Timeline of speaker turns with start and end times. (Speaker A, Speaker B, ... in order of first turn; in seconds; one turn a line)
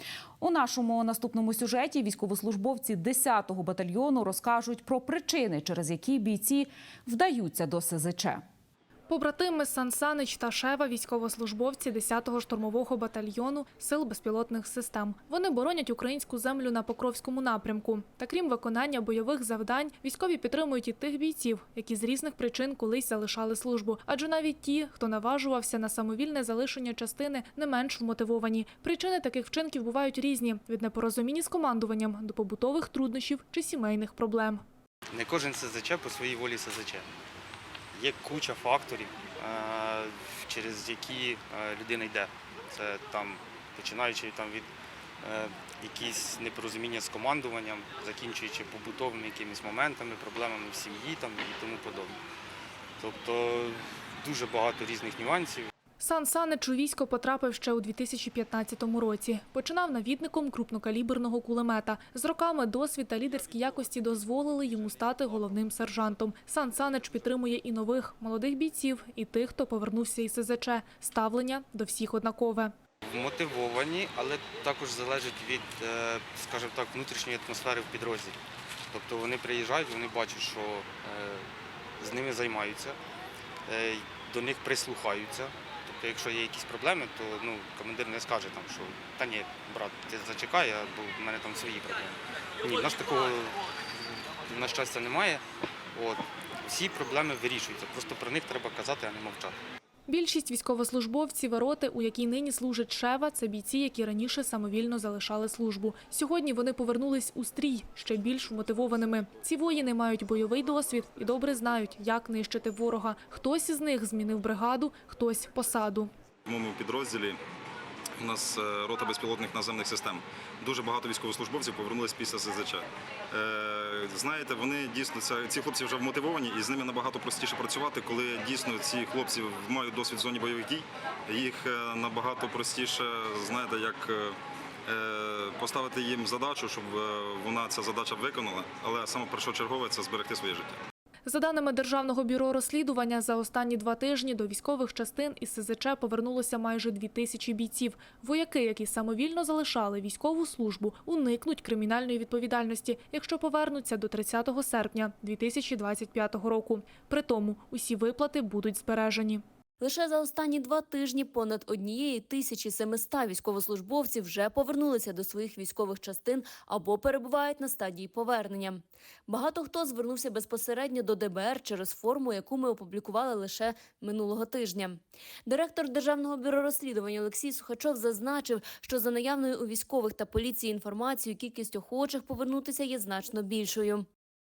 Speaker A: 0.4-8.4
Speaker B: 9.1-34.6
Speaker C: 35.1-37.1
Speaker C: 37.9-44.7
Speaker C: 45.2-52.2
Speaker C: 53.0-55.7
Speaker B: 56.0-72.7
Speaker C: 73.0-78.4
Speaker C: 78.9-81.5
Speaker C: 82.0-83.0
Speaker C: 83.7-93.6
Speaker C: 94.4-95.4
Speaker C: 95.9-99.6
Speaker B: 100.1-116.1
Speaker D: 116.5-117.4
Speaker D: 118.2-140.8
Speaker B: 141.2-159.4
Speaker E: 159.8-184.1